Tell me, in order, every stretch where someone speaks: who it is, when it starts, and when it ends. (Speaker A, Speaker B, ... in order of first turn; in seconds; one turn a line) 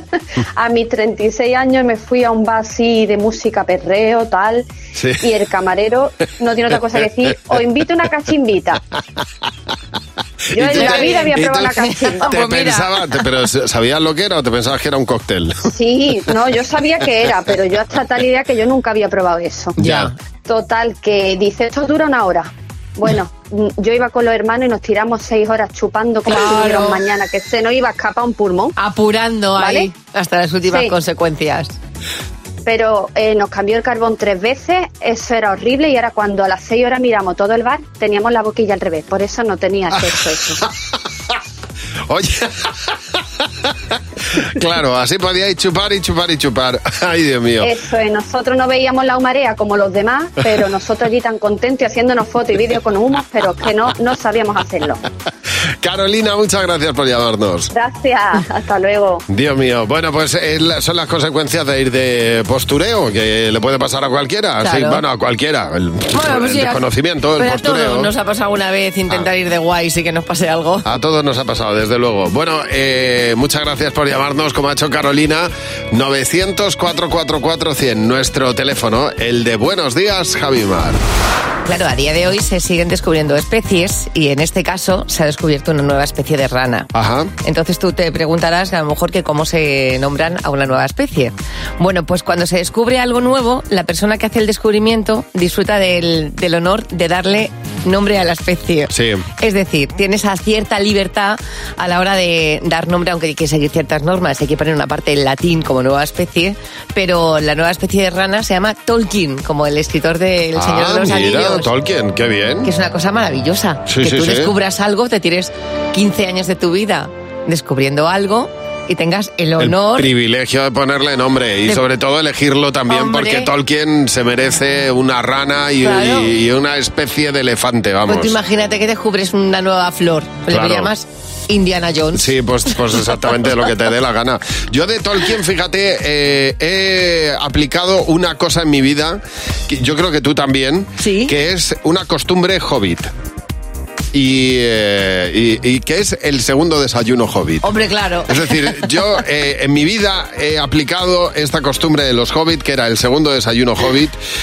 Speaker A: 0.6-4.7
Speaker B: 5.0-5.3
Speaker A: 5.2-8.8
Speaker A: 10.5-12.3
Speaker B: 10.5-15.7
Speaker C: 10.7-12.9
Speaker A: 15.7-19.8
Speaker C: 19.8-20.1
Speaker B: 19.8-20.1
Speaker A: 20.5-28.7
Speaker C: 26.3-27.0
Speaker C: 28.8-31.8
Speaker A: 29.6-29.9
Speaker A: 30.6-30.9
Speaker A: 32.7-40.6
Speaker B: 40.0-40.6
Speaker B: 42.1-42.5
Speaker B: 44.4-47.7
Speaker A: 47.6-55.0
Speaker B: 55.8-57.7
Speaker A: 57.7-59.2
Speaker B: 59.3-68.1
Speaker C: 64.6-65.0
Speaker C: 66.1-66.8
Speaker C: 67.4-70.9
Speaker B: 70.8-81.0
Speaker C: 81.7-86.9
Speaker B: 86.9-87.3
Speaker C: 87.4-111.7
Speaker B: 98.9-99.2
Speaker B: 110.6-112.7
Speaker C: 112.6-120.1
Speaker B: 113.9-114.5
Speaker B: 119.6-128.4
Speaker C: 122.9-123.5
Speaker C: 125.8-126.3
Speaker C: 128.1-132.3
Speaker B: 130.5-130.9
Speaker B: 132.2-143.1
Speaker C: 141.0-141.3
Speaker B: 144.1-147.7
Speaker C: 147.6-148.8
Speaker B: 148.3-154.2